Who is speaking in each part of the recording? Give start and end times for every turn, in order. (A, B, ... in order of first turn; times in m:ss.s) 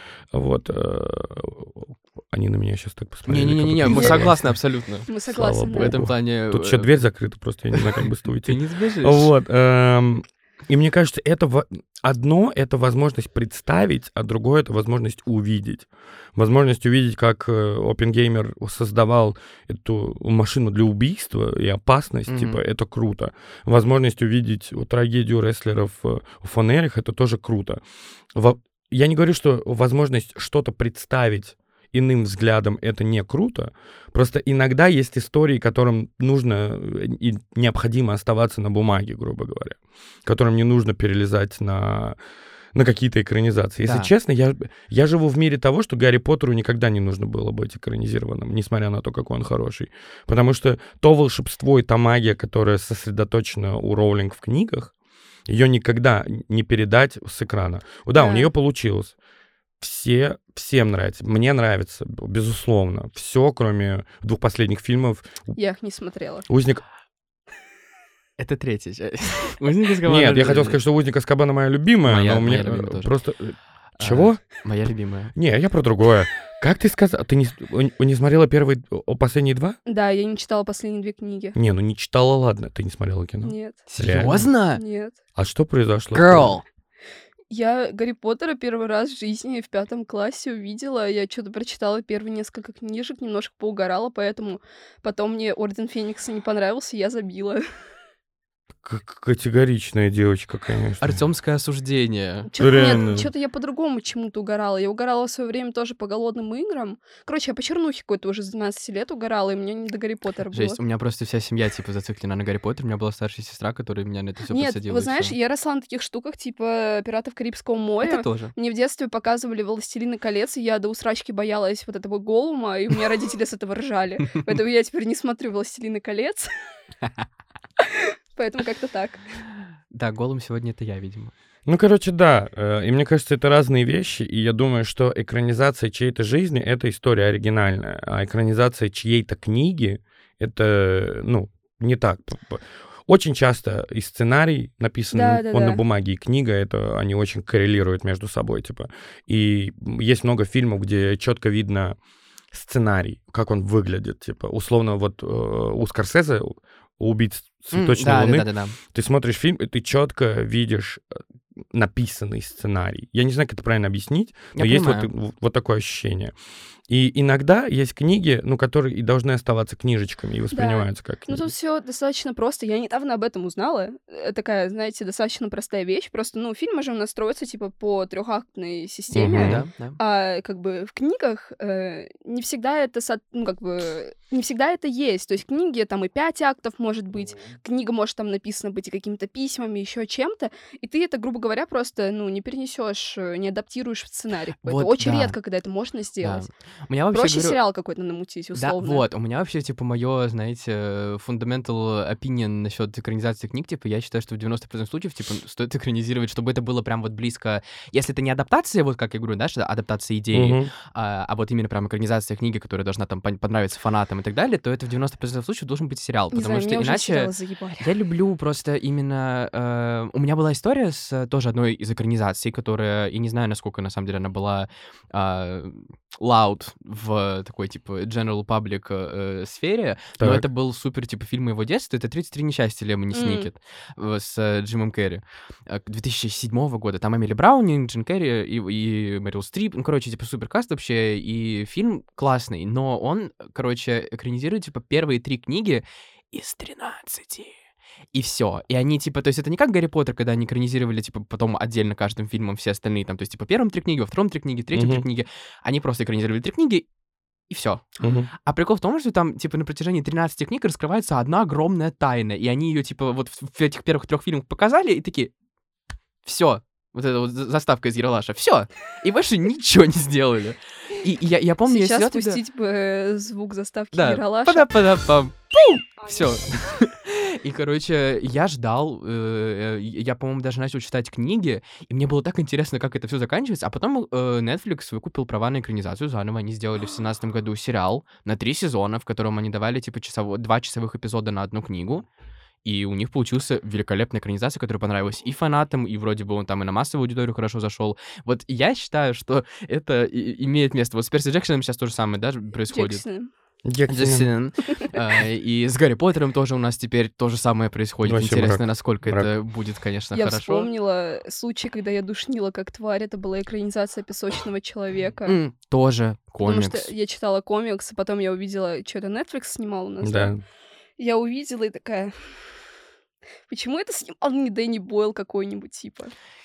0:00.3-0:04.5 A
0:03.3-0:05.1 B
0:03.9-0:04.3 C
0:05.1-0:06.0 C
0:05.3-0:27.8 A
0:05.7-0:06.9 B
0:07.7-0:09.3 B
0:22.3-0:22.6 B
0:28.4-0:42.2 A
0:42.8-0:54.9 A
0:43.8-0:44.1 B
0:55.5-0:59.2 A
0:58.1-0:58.5 C
0:59.8-1:05.6 A
1:05.6-1:06.5 C
1:06.5-1:06.8 A
1:08.4-1:10.8 B
1:10.0-1:14.5 A
1:12.1-1:13.1 B
1:14.0-1:15.3 B
1:15.4-1:19.8 A
1:19.9-1:21.6 C
1:21.6-1:24.5 A
1:23.4-1:25.2 C
1:23.9-1:24.8 B
1:25.4-1:26.6 A
1:26.1-1:26.6 B
1:27.5-1:37.6 C
1:38.8-1:41.2 A
1:41.0-1:42.5 B
1:42.5-1:50.8 C
1:42.6-1:43.3 A
1:50.5-1:55.3 B
1:54.5-2:06.5 C
1:58.0-1:58.5 B
2:07.8-2:09.2 C
2:09.9-2:11.3 B
2:11.7-2:32.0 A
2:25.1-2:25.8 C
2:32.5-2:41.2 A
2:37.7-2:38.8 B
2:41.7-2:46.3 A
2:44.6-2:45.1 B
2:46.9-2:51.5 A
2:50.5-3:16.5 C
2:59.1-2:59.6 A
2:59.3-3:00.0 B
3:14.6-3:15.4 B
3:16.2-3:17.6 B
3:17.1-3:19.0 C
3:18.6-4:07.6 B
3:30.3-3:30.7 A
3:36.3-3:37.9 C
3:50.2-3:50.4 A
3:53.1-3:53.5 C
4:08.1-4:16.9 B
4:14.7-4:15.0 A
4:17.5-4:25.3 B
4:18.0-4:18.3 A
4:26.2-4:32.4 B
4:31.7-4:34.7 C
4:33.9-4:52.0 B
4:52.6-5:03.0 B
5:02.7-5:03.3 C
5:03.6-5:04.3 A
5:03.9-5:10.7 B
5:08.0-5:09.3 A
5:10.1-5:15.4 C
5:15.3-5:16.9 B
5:16.4-5:20.3 C
5:20.0-5:20.4 A
5:21.0-5:22.4 C
5:23.5-5:26.1 C